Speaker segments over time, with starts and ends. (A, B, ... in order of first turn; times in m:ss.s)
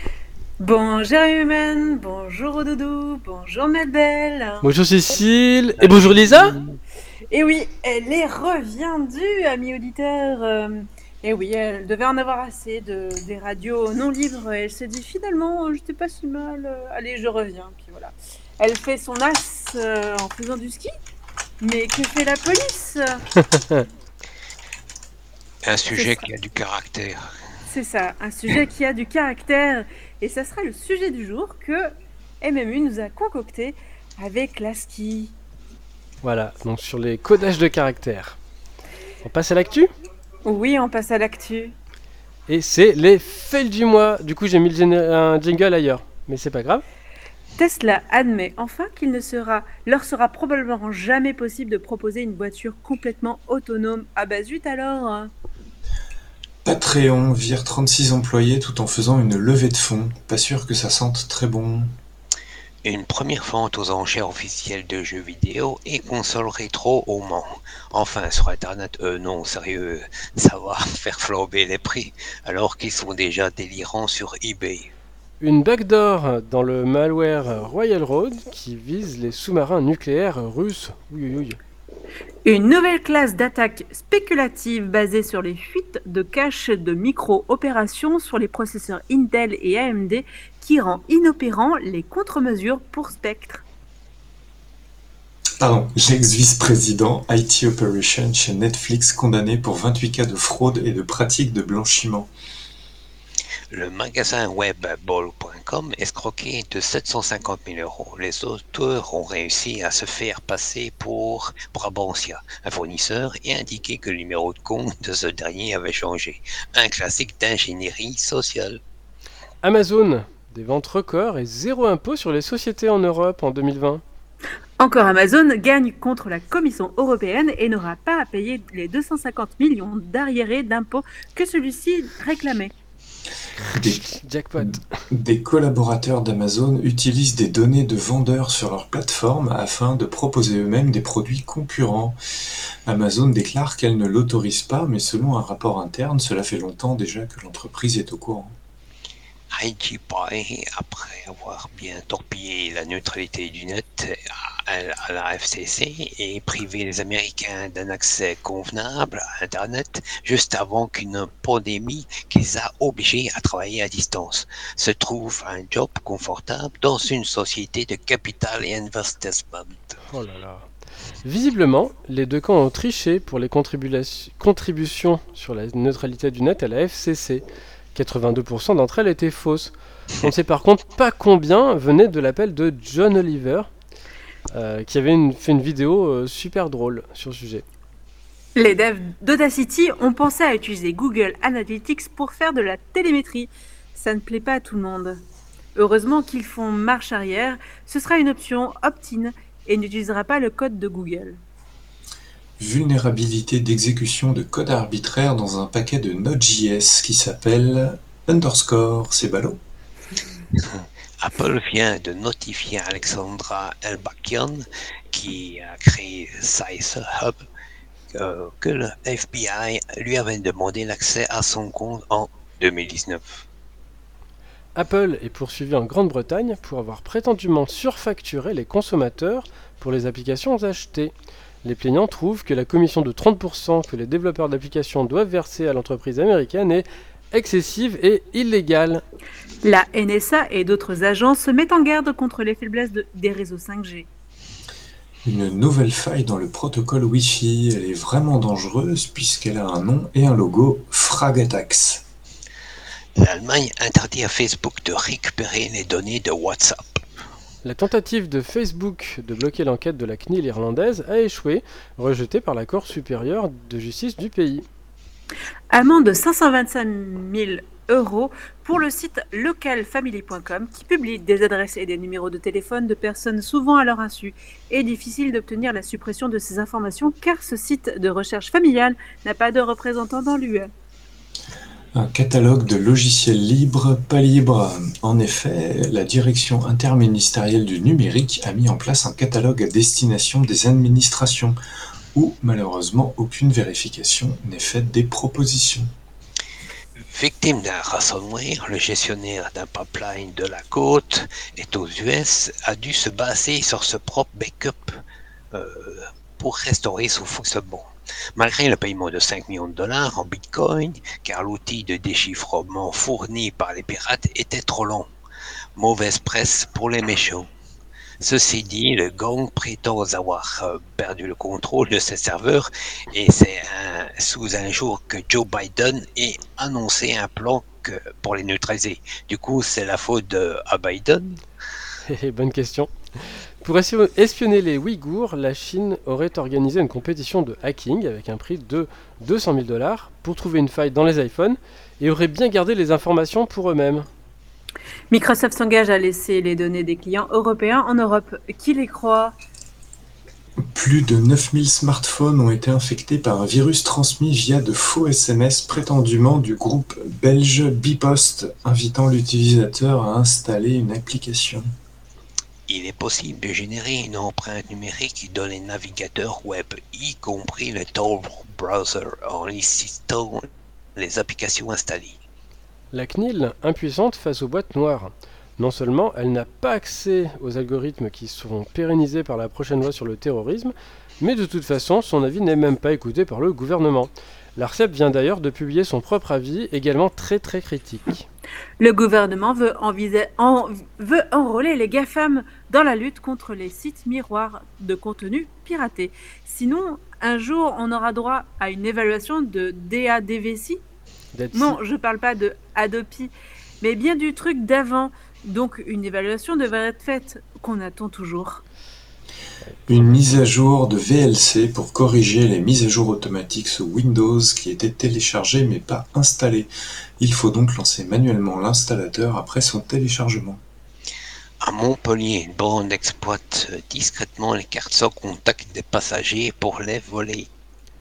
0:00.6-0:04.7 A
0:04.6-0:06.5 B
0:05.8-0:06.8 C
0:07.3-0:20.9 A
0:21.6-0:23.2 A
0:23.4-0:23.9 B
0:25.6-0:27.3 C
0:25.9-0:26.2 A
0:27.7-0:35.3 A
0:36.2-0:38.4 B
0:39.2-0:39.9 B
0:40.4-0:41.7 A
0:42.5-0:46.8 B
0:47.6-0:55.3 A
0:56.6-1:01.9 D
1:02.8-1:14.9 C
1:15.4-1:21.6 B
1:22.4-1:33.6 A
1:35.6-1:42.3 D
1:43.7-1:58.8 C
1:59.6-2:04.0 B
2:04.8-2:12.7 A
2:13.7-2:15.0 B
2:13.7-2:14.0 D
2:14.6-2:22.2 D
2:22.8-2:28.5 D
2:29.5-2:50.0 C
2:50.1-2:50.7 B
2:51.2-2:57.4 B
2:57.9-3:03.7 B
3:04.5-3:07.6 B
3:08.6-3:15.2 A
3:15.7-3:21.4 A
3:22.6-3:29.6 D
3:30.6-3:37.4 C
3:38.1-3:43.4 C
3:44.7-3:51.1 B
3:51.6-3:59.0 B
3:59.6-4:04.1 A
4:05.2-4:12.0 D
4:13.2-4:17.0 C
4:17.6-4:24.6 B
4:25.7-4:40.7 A
4:41.9-4:51.6 D
4:52.1-4:55.9 D
4:57.0-5:05.0 C
5:05.5-5:15.1 C
5:15.8-5:17.5 C
5:18.2-5:31.4 C
5:32.0-5:44.1 B
5:45.1-5:49.3 A
5:50.7-6:01.7 D
6:02.7-6:12.2 C
6:12.9-6:28.3 B
6:28.8-6:40.8 A
6:41.3-6:41.8 B
6:41.5-6:48.6 A
6:49.9-7:00.6 D
7:01.6-7:07.5 C